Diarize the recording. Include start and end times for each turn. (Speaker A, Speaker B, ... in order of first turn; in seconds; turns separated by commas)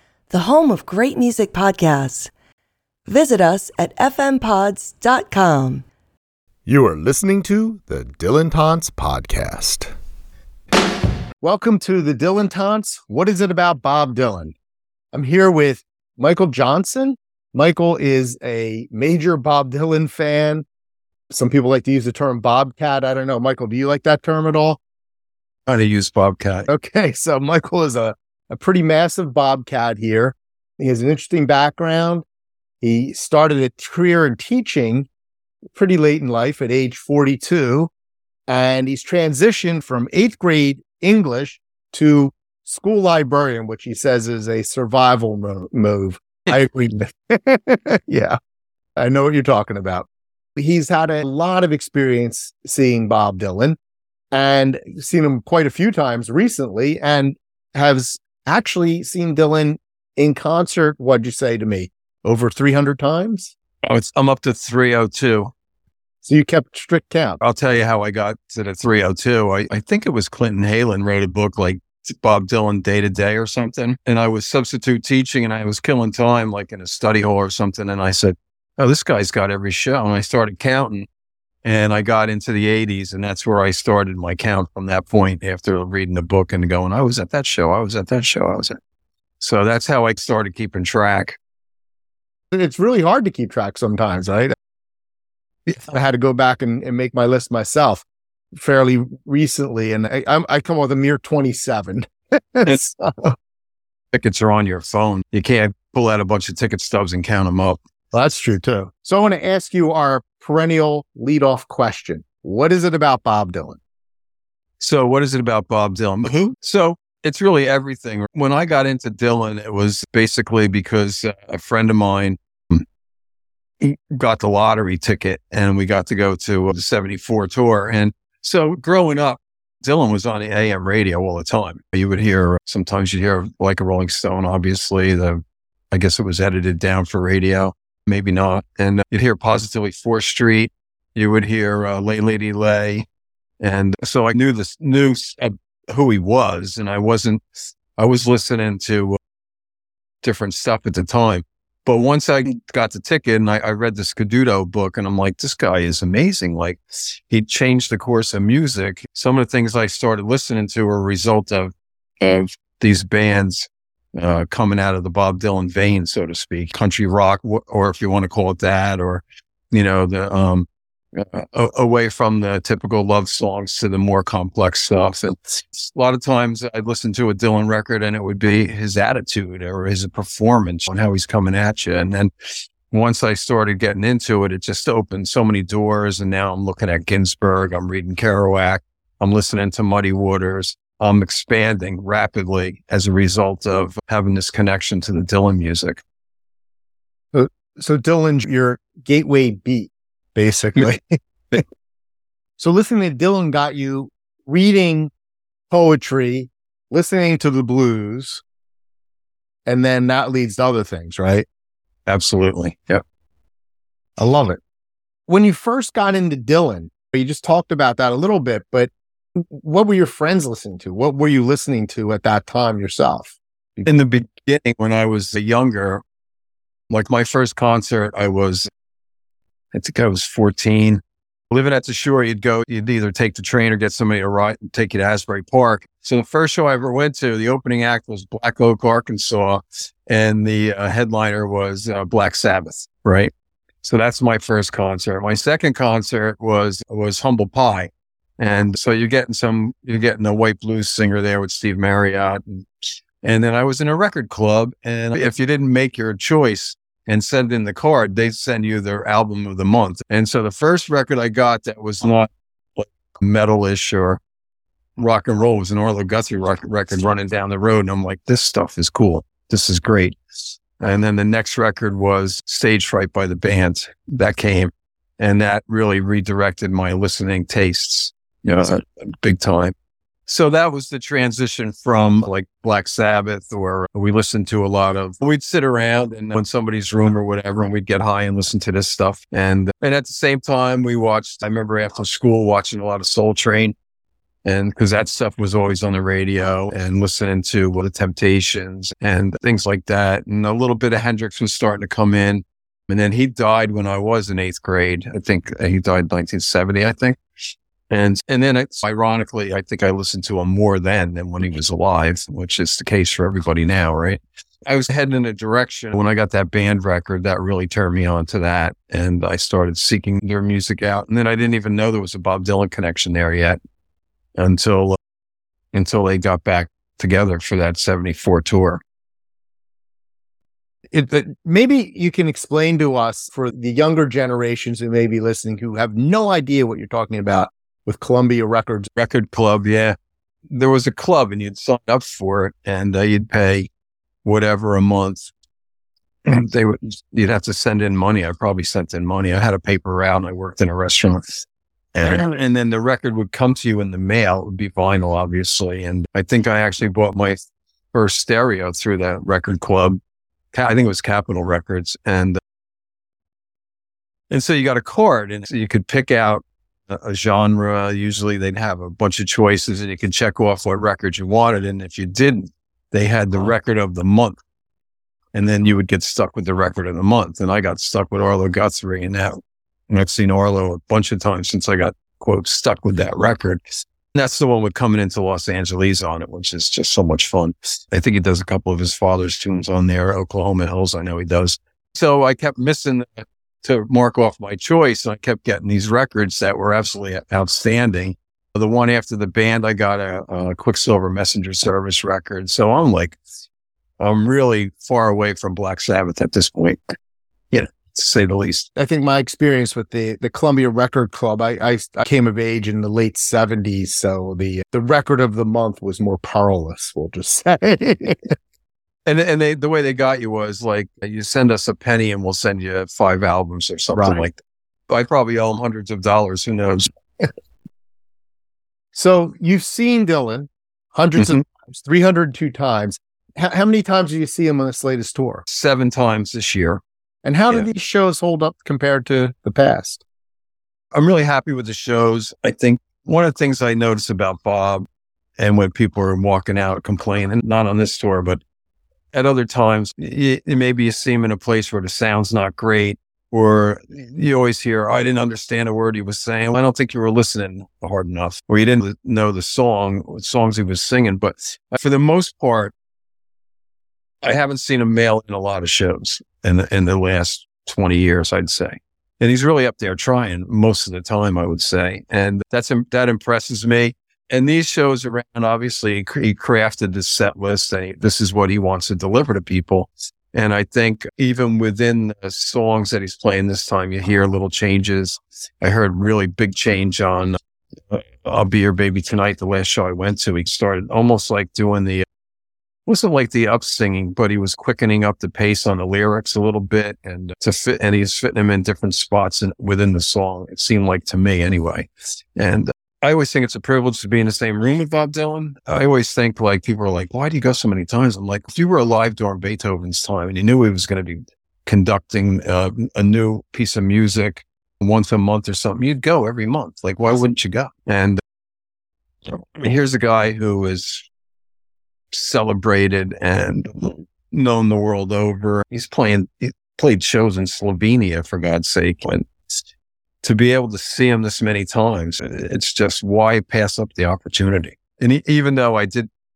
Speaker A: 0.3-2.3, Speaker A: 3.1-5.8, Speaker B: 6.7-9.9, Speaker B: 11.4-14.5, Speaker B: 15.1-20.7, Speaker B: 21.3-24.8, Speaker C: 25.7-26.7, Speaker B: 26.7-32.2, Speaker B: 32.8-35.1, Speaker B: 35.7-37.9, Speaker B: 38.5-48.4, Speaker B: 49.0-53.8, Speaker B: 54.3-63.5, Speaker C: 63.8-65.5, Speaker B: 66.2-67.4, Speaker C: 67.4-81.1, Speaker C: 81.6-88.8, Speaker C: 89.4-91.4, Speaker B: 92.5-94.5, Speaker B: 95.8-103.4, Speaker C: 104.1-107.8, Speaker B: 108.1-113.8, Speaker C: 114.8-122.8, Speaker C: 123.8-143.1, Speaker C: 143.6-147.4, Speaker C: 148.0-149.2, Speaker C: 150.2-182.3, Speaker C: 182.9-196.0, Speaker B: 197.3-201.6, Speaker B: 202.6-205.1, Speaker B: 205.7-208.4, Speaker B: 209.7-211.5, Speaker C: 212.1-213.0, Speaker B: 214.2-214.6, Speaker B: 215.3-223.9, Speaker C: 223.9-226.0, Speaker C: 226.9-228.7, Speaker C: 229.7-243.3, Speaker C: 243.8-252.7, Speaker C: 253.2-264.2, Speaker C: 265.0-270.2, Speaker C: 270.8-279.7, Speaker C: 280.3-293.8, Speaker C: 294.4-307.2, Speaker C: 307.9-323.6, Speaker C: 324.4-325.0, Speaker C: 325.7-328.8, Speaker B: 330.9-338.9, Speaker C: 339.0-340.0, Speaker C: 340.5-343.7, Speaker C: 344.2-345.3, Speaker C: 346.2-351.3, Speaker C: 351.9-357.4, Speaker C: 357.9-360.0, Speaker C: 360.5-362.4, Speaker C: 364.3-374.4, Speaker C: 375.3-383.6, Speaker C: 384.1-403.2, Speaker C: 404.0-407.0, Speaker C: 407.5-408.7, Speaker B: 408.8-418.4, Speaker C: 419.1-424.4, Speaker B: 423.9-424.2, Speaker C: 424.9-426.9, Speaker B: 428.9-435.4, Speaker C: 435.5-436.8, Speaker B: 437.2-440.0, Speaker C: 440.9-444.9, Speaker C: 445.4-448.4, Speaker C: 449.1-462.7, Speaker C: 464.2-487.4, Speaker C: 487.9-492.1, Speaker C: 492.9-518.2, Speaker C: 519.3-521.0, Speaker C: 522.1-529.3, Speaker C: 530.2-536.1